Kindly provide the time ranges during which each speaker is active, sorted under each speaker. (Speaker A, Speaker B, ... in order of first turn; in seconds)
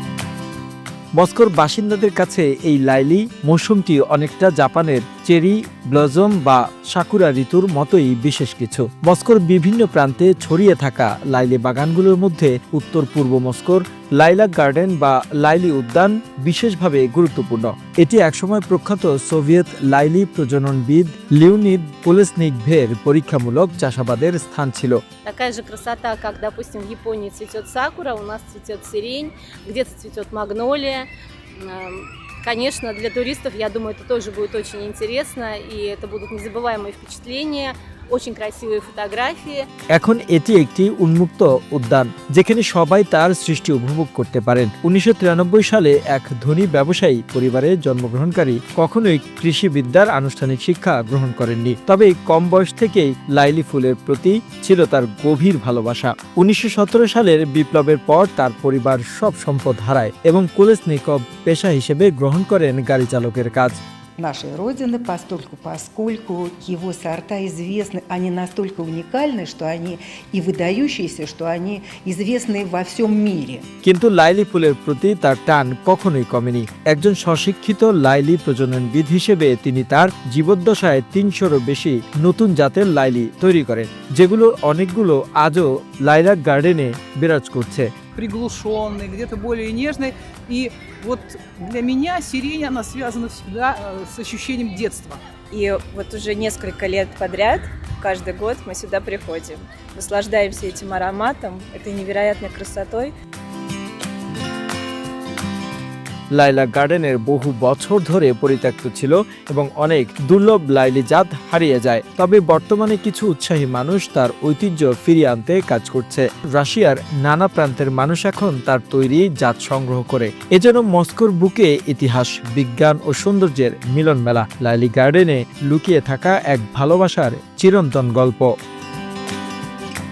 Speaker A: 1.2-25.0, 39.9-63.8, 73.8-87.9, 106.3-128.5
Speaker B: 25.3-31.1, 31.6-39.7
Speaker C: 64.2-73.6
Speaker D: 88.2-95.2
Speaker E: 95.5-103.1